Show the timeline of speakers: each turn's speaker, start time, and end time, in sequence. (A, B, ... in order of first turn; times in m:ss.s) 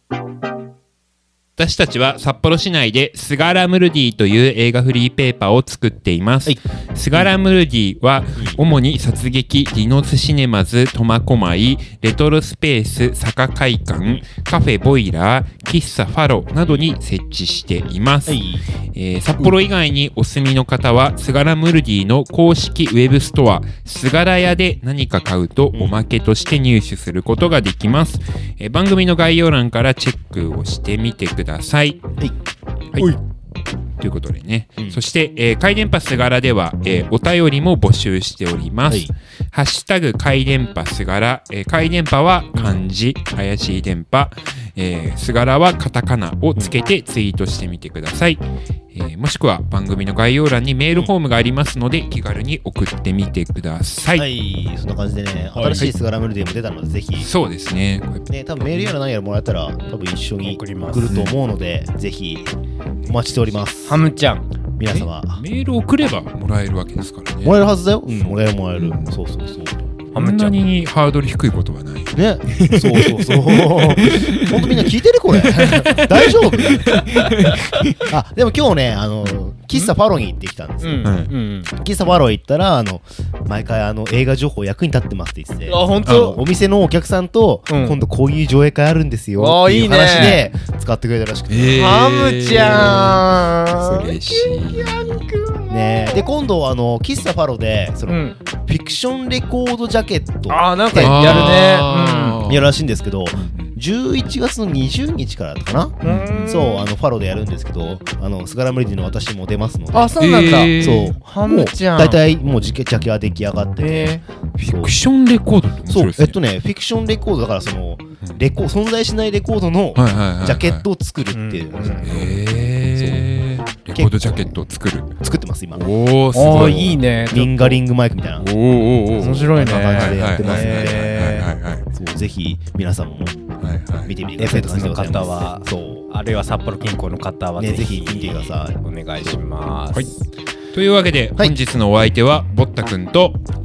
0:01.6-0:32.0 A
0:16.7-0:16.9 B
0:18.3-0:18.6 B
0:34.0-0:54.3 A
0:42.5-0:42.8 B
0:54.1-0:57.3 B
0:55.6-0:55.9 C
0:57.2-0:58.3 A
0:58.3-1:02.5 B
1:00.4-1:01.1 C
1:01.1-1:01.4 A
1:03.1-1:04.0 B
1:03.9-1:04.5 C
1:04.8-1:05.4 B
1:04.8-1:07.6 A
1:07.4-1:09.8 B
1:08.8-1:09.1 A
1:10.1-1:18.1 A
1:10.2-1:10.6 C
1:12.1-1:17.3 B
1:18.1-1:21.1 B
1:20.8-1:21.7 C
1:21.0-1:21.3 A
1:21.8-1:32.0 B
1:25.7-1:26.4 C
1:26.0-1:26.4 A
1:27.7-1:28.0 C
1:29.4-1:30.4 C
1:31.5-1:35.3 A
1:31.8-1:36.3 C
1:35.7-1:41.7 B
1:38.1-1:38.4 C
1:40.5-1:42.4 C
1:41.0-1:42.7 A
1:42.5-1:54.9 B
1:43.4-1:43.8 A
1:46.0-1:46.9 C
1:46.0-1:46.6 A
1:49.9-1:52.2 C
1:50.2-1:51.2 A
1:53.8-1:54.2 C
1:54.6-1:56.4 A
1:55.9-2:03.3 B
2:00.0-2:00.9 A
2:01.3-2:02.2 C
2:02.0-2:05.2 A
2:03.9-2:04.6 B
2:05.2-2:05.8 B
2:05.7-2:07.0 A
2:06.3-2:07.8 C
2:06.4-2:08.5 B
2:08.4-2:11.9 A
2:09.2-2:11.5 C
2:09.2-2:13.4 B
2:13.6-2:14.1 A
2:14.0-2:16.1 B
2:14.4-2:20.2 C
2:17.6-2:19.4 B
2:20.7-2:23.4 A